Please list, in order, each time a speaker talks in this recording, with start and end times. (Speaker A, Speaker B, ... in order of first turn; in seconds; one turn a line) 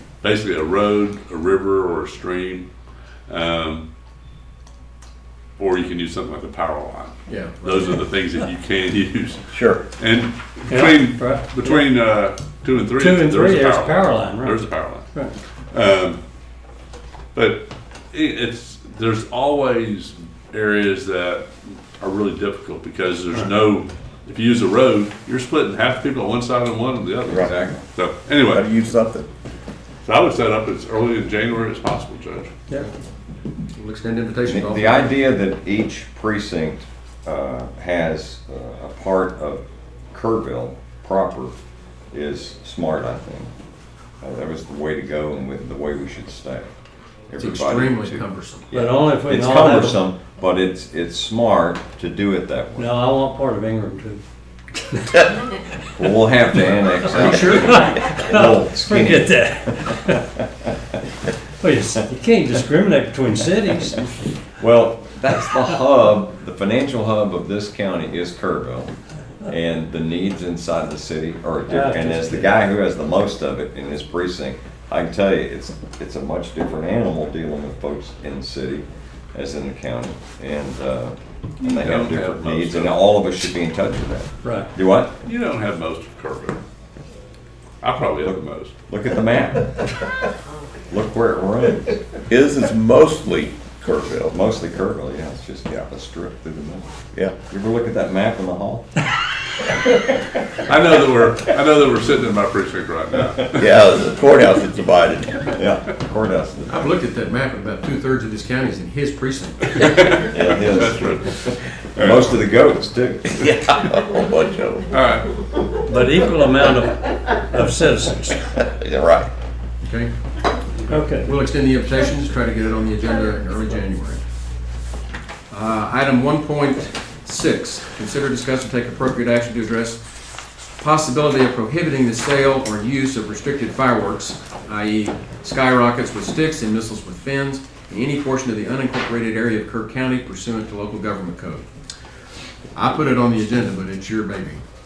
Speaker A: 0.2-2.7
Speaker A: 3.3-3.8
Speaker A: 5.6-15.1
Speaker B: 7.3-8.0
Speaker C: 9.5-9.8
Speaker D: 10.7-11.8
Speaker D: 12.9-14.6
Speaker A: 15.7-16.2
Speaker A: 17.3-28.7
Speaker E: 27.3-27.8
Speaker C: 28.5-29.3
Speaker A: 30.1-32.6
Speaker B: 33.7-35.2
Speaker E: 34.5-41.5
Speaker E: 42.1-43.5
Speaker E: 44.2-46.7
Speaker E: 47.3-48.2
Speaker B: 47.4-48.7
Speaker E: 48.7-53.0
Speaker D: 48.7-50.0
Speaker D: 52.8-54.2
Speaker D: 54.9-55.3
Speaker E: 56.0-59.3
Speaker D: 56.6-60.3
Speaker B: 57.1-58.0
Speaker D: 61.6-64.3
Speaker E: 64.6-69.0
Speaker D: 65.5-65.7
Speaker E: 69.5-85.1
Speaker D: 71.7-72.6
Speaker A: 81.6-83.1
Speaker D: 84.4-84.7
Speaker A: 85.2-86.6
Speaker A: 87.8-88.7
Speaker E: 88.9-89.7
Speaker E: 90.9-92.0
Speaker C: 92.3-94.3
Speaker E: 94.3-98.9
Speaker C: 97.1-97.4
Speaker A: 100.5-103.6
Speaker C: 103.5-105.5
Speaker E: 105.5-106.9
Speaker B: 106.7-110.2
Speaker A: 109.8-111.3
Speaker E: 110.3-113.2
Speaker A: 112.0-112.4
Speaker C: 113.3-114.9
Speaker A: 114.9-115.3
Speaker D: 115.9-118.4
Speaker C: 118.8-119.3
Speaker B: 119.8-120.1
Speaker D: 120.9-121.3
Speaker B: 121.2-124.2
Speaker B: 125.5-130.0
Speaker B: 130.8-141.7
Speaker B: 142.7-144.6